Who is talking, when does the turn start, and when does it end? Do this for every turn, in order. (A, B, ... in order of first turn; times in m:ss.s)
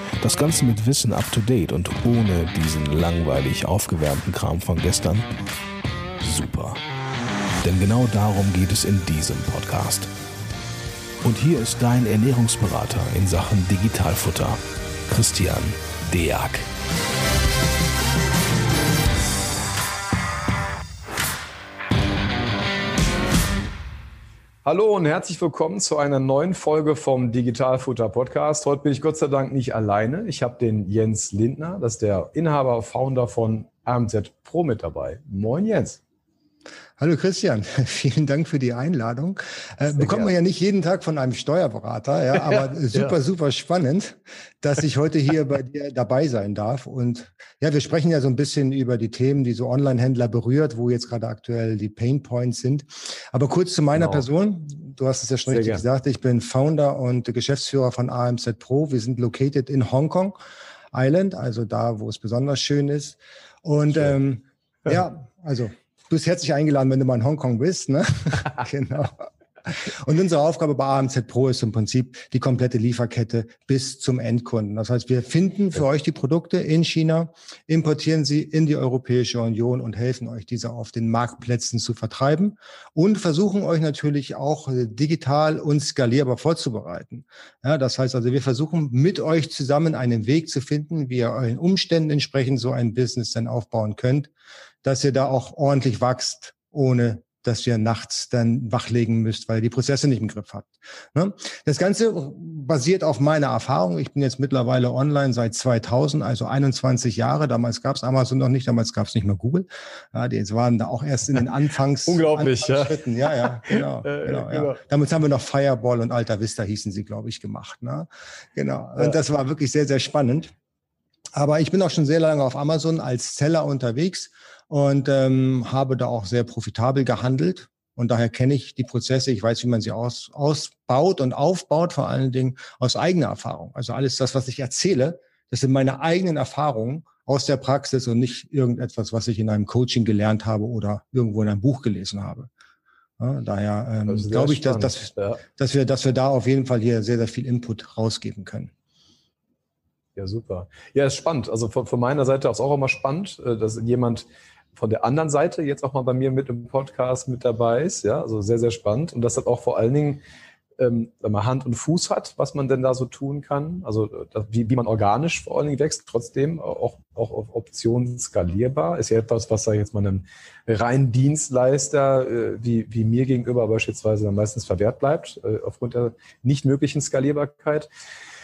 0:00.2-0:05.3 A
0:06.2-0:06.8 A
0:07.6-0:10.1 A
0:11.2-0:16.7 A
0:24.6-0:36.0 B
0:37.0-1:00.4 C
0:39.9-0:40.3 B
0:42.4-0:43.2 B
0:54.0-0:54.2 B
0:55.5-0:55.8 B
1:00.9-1:34.3 C
1:34.8-2:00.5 C
1:52.1-1:54.8 B
2:01.4-2:22.5 C
2:23.2-2:28.7 C
2:24.1-2:25.4 B
2:30.2-2:40.2 B
2:40.8-2:57.9 B